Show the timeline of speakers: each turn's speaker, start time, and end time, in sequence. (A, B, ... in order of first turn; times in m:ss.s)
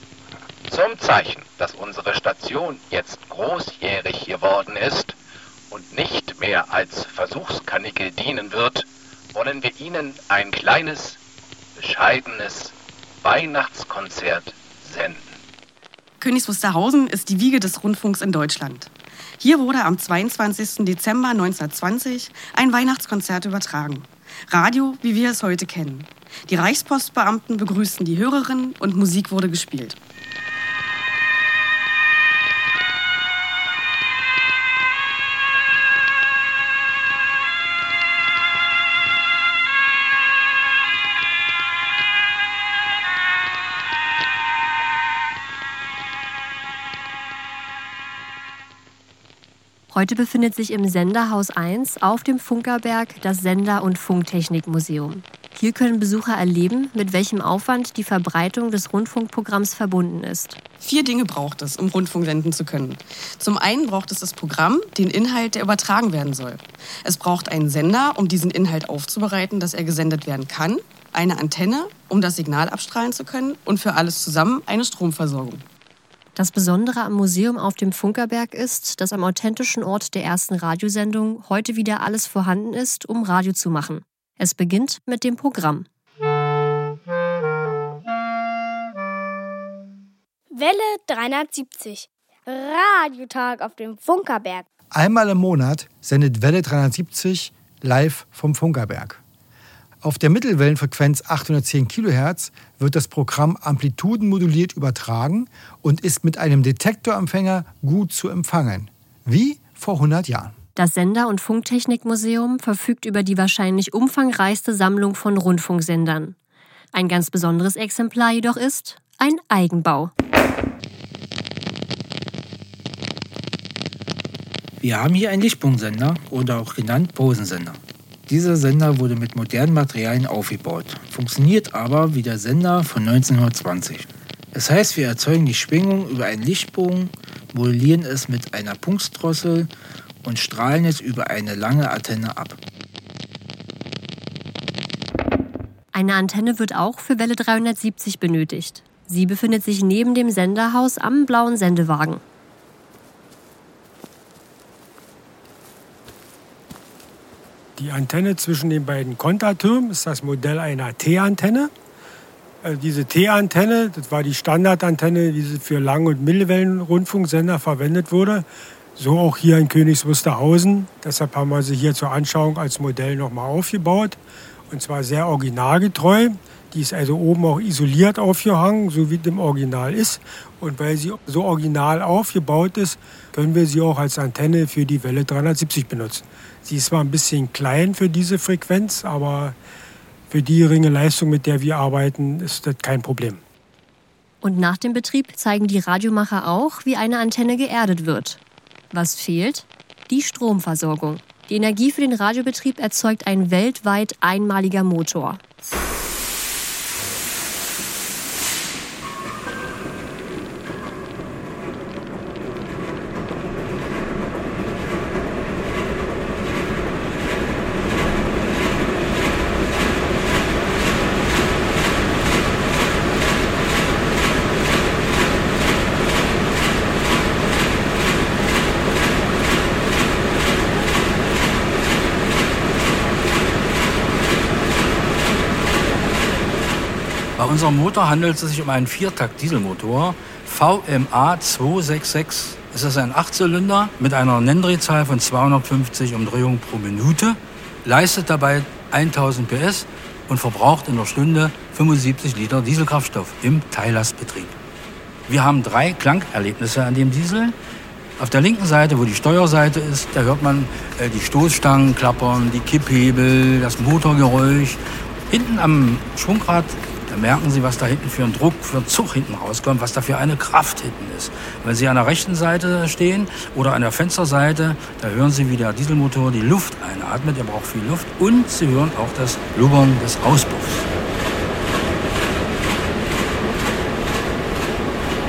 0:00.7-0:05.2 A
0:05.7-0:11.2 A
0:11.8-0:15.4 A
0:16.2-0:30.0 B
0:49.9-1:00.6 C
1:00.8-1:15.6 B
1:16.4-1:25.9 C
1:30.5-1:34.6 D
1:34.9-1:39.2 E
1:40.0-1:50.5 E
1:50.8-1:56.4 C
1:56.9-2:00.1 C
2:04.8-2:19.7 F
2:20.2-2:22.6 F
2:25.9-2:32.2 C
2:37.8-2:41.7 G
2:42.6-2:48.4 G
2:49.0-2:54.2 G
2:54.7-3:09.6 G
3:10.3-3:13.4 G
3:14.4-3:18.4 C
3:18.9-3:25.4 C
3:57.4-4:14.5 H
4:15.3-4:17.6 H
4:18.2-4:40.9 H